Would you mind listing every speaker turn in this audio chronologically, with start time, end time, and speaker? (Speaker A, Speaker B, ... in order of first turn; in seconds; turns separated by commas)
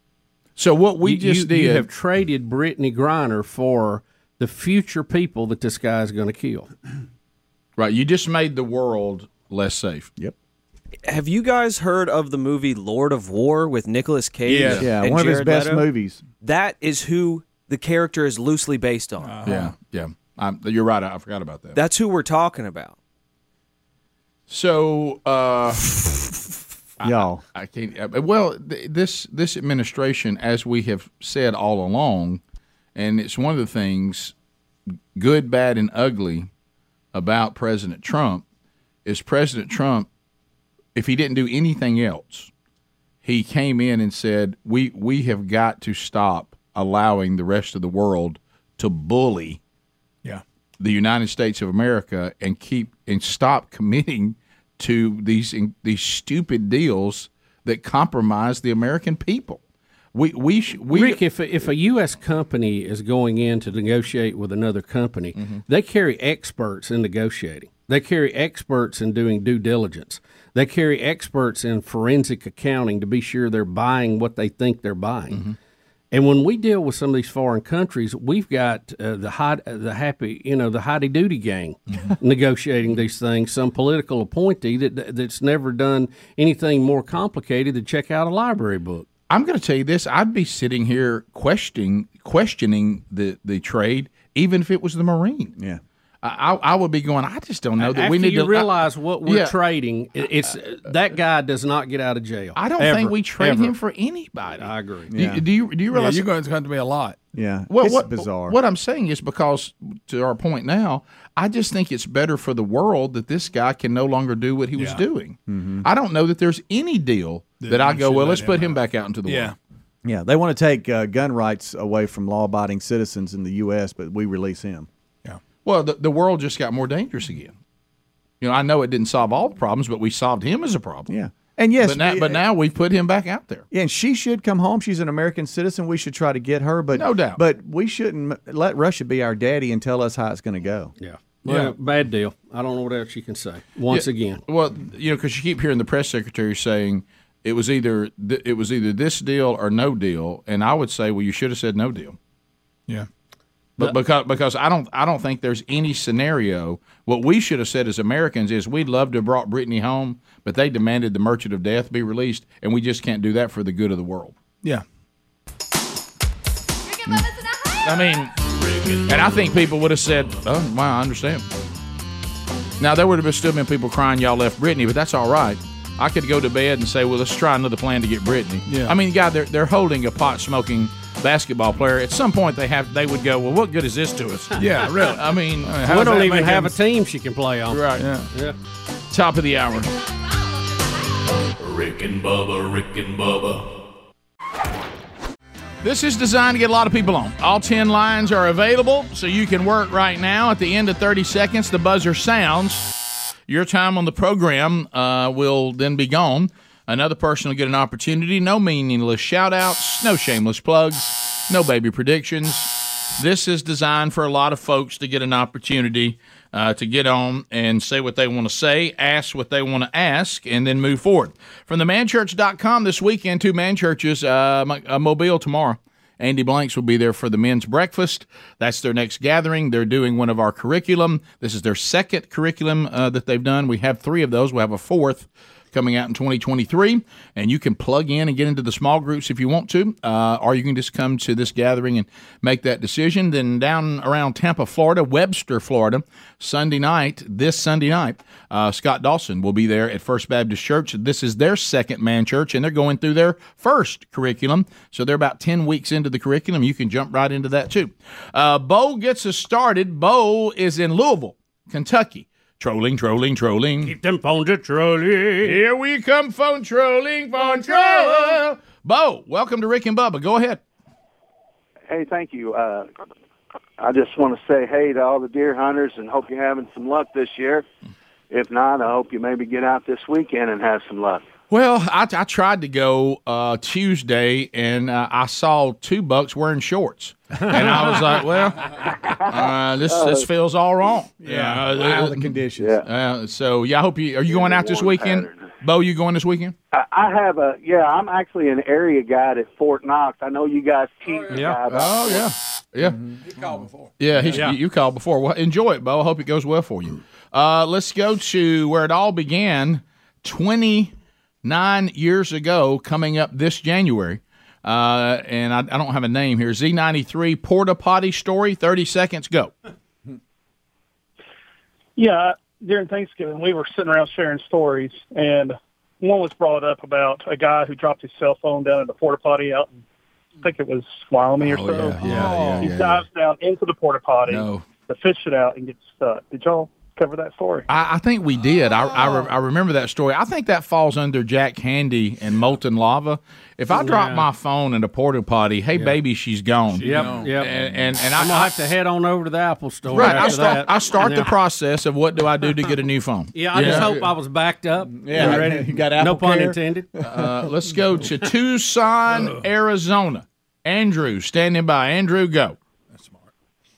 Speaker A: 0.6-1.9, Speaker B: 1.0-6.7, Speaker A: 7.8-10.1, Speaker C: 11.0-15.9, Speaker D: 14.5-14.8, Speaker E: 14.7-16.2, Speaker C: 16.4-19.3, Speaker D: 19.2-19.7, Speaker A: 19.4-21.8, Speaker C: 21.7-22.9, Speaker A: 24.5-26.4, Speaker A: 27.0-32.4, Speaker E: 27.0-27.4, Speaker A: 32.9-34.3, Speaker A: 35.1-36.5, Speaker A: 37.1-38.4, Speaker A: 39.0-40.1, Speaker A: 40.9-42.5, Speaker A: 43.2-49.6, Speaker A: 50.8-59.6, Speaker A: 60.1-61.2, Speaker B: 60.9-75.4, Speaker A: 65.4-65.6, Speaker B: 76.1-89.0, Speaker A: 89.3-95.5, Speaker A: 96.2-98.7, Speaker B: 97.8-103.7, Speaker A: 99.2-99.5, Speaker A: 102.5-106.3, Speaker B: 104.6-105.1, Speaker E: 105.1-105.4, Speaker D: 105.9-107.3, Speaker E: 107.3-108.6, Speaker A: 107.7-119.5, Speaker D: 114.7-115.0, Speaker E: 115.5-115.9, Speaker D: 117.6-119.5, Speaker E: 120.0-124.9, Speaker A: 125.6-127.5, Speaker A: 128.4-131.1, Speaker E: 131.1-132.4, Speaker A: 131.8-133.7, Speaker E: 133.7-140.9, Speaker A: 136.9-137.4, Speaker B: 141.0-144.4, Speaker A: 143.9-152.2, Speaker A: 153.8-164.4, Speaker F: 166.9-169.9, Speaker A: 167.8-168.3, Speaker A: 169.1-171.4, Speaker A: 172.8-186.1, Speaker D: 178.7-179.0, Speaker D: 184.5-186.8, Speaker B: 185.9-188.6, Speaker A: 187.7-188.1, Speaker D: 187.9-188.3, Speaker A: 189.1-189.9, Speaker F: 191.6-193.7, Speaker A: 195.8-202.9, Speaker A: 203.5-263.9, Speaker B: 263.8-265.6, Speaker A: 265.4-270.6, Speaker G: 271.9-272.9, Speaker G: 273.8-277.6, Speaker G: 278.3-281.3, Speaker A: 281.5-288.8, Speaker G: 289.0-290.2, Speaker A: 289.3-296.5, Speaker E: 291.2-292.8, Speaker G: 292.6-292.8, Speaker G: 294.3-295.4, Speaker G: 296.7-302.2, Speaker D: 301.1-301.6, Speaker A: 301.7-303.1, Speaker D: 303.2-304.5, Speaker A: 304.0-310.9, Speaker A: 311.4-319.5, Speaker H: 321.9-329.8, Speaker H: 330.4-337.7, Speaker D: 331.4-332.9, Speaker A: 332.0-333.0, Speaker E: 332.0-332.7, Speaker A: 334.2-334.6, Speaker A: 337.7-348.5, Speaker B: 343.7-344.3, Speaker D: 346.7-347.5, Speaker B: 346.8-347.5, Speaker B: 348.1-351.4, Speaker A: 349.9-354.0, Speaker B: 353.3-356.9, Speaker D: 353.5-354.1, Speaker E: 355.0-356.6, Speaker D: 355.2-355.4, Speaker A: 357.0-362.6, Speaker D: 359.1-359.4